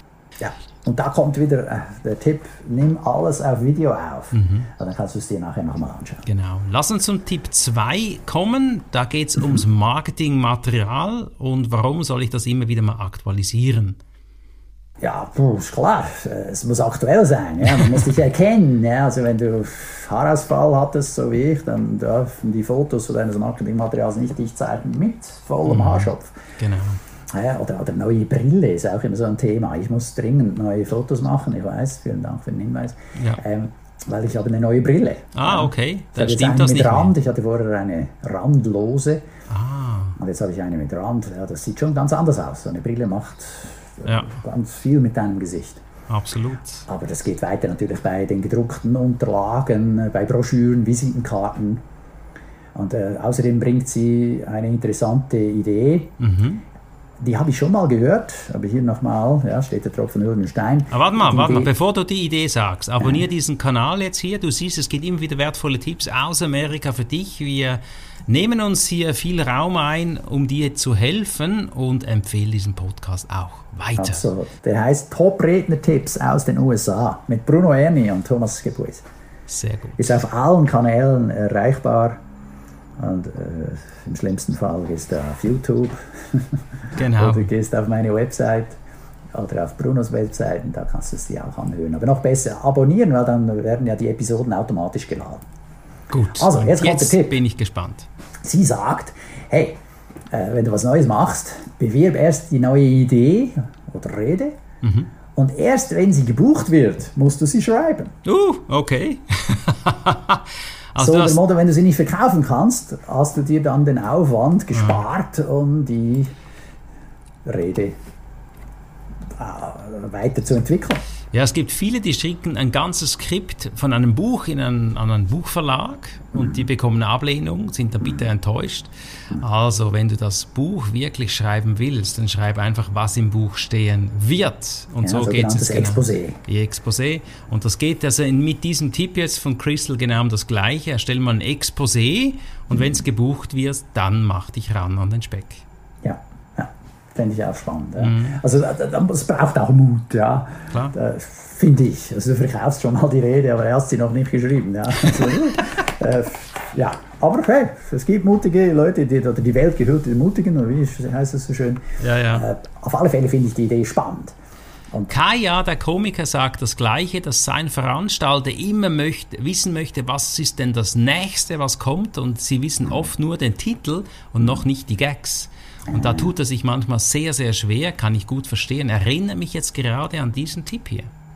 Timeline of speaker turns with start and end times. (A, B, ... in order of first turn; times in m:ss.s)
0:00.4-0:06.2 A
0:04.3-0:04.7 B
0:06.3-0:14.0 B
0:15.0-0:26.3 A
0:17.6-0:18.0 B
0:25.6-0:27.0 B
0:27.3-0:39.2 A
0:33.2-0:33.4 B
0:35.3-0:37.2 B
0:39.5-0:40.2 B
0:40.2-0:45.8 A
0:44.1-0:44.3 B
0:46.1-0:46.9 B
0:46.9-0:51.8 A
0:52.8-0:56.2 A
0:56.2-0:56.6 B
0:57.2-1:01.7 A
1:00.9-1:14.2 B
1:14.0-1:19.0 A
1:19.5-1:20.2 B
1:20.0-1:22.2 A
1:23.0-1:28.8 A
1:27.0-1:27.5 B
1:29.3-1:35.4 A
1:36.1-1:38.1 B
1:36.4-1:37.4 A
1:38.4-1:39.8 A
1:40.3-1:44.6 A
1:44.8-1:45.1 B
1:45.4-1:48.1 A
1:48.2-1:51.4 B
1:51.0-1:56.3 A
1:54.7-1:55.0 B
1:57.4-1:58.0 A
1:59.4-2:01.0 A
2:01.3-2:25.6 B
2:06.4-2:06.6 A
2:15.0-2:16.4 A
2:26.0-2:44.4 A
2:28.0-2:28.4 B
2:30.7-2:31.0 B
2:42.0-2:42.5 B
2:45.1-3:01.1 B
2:55.9-2:56.3 A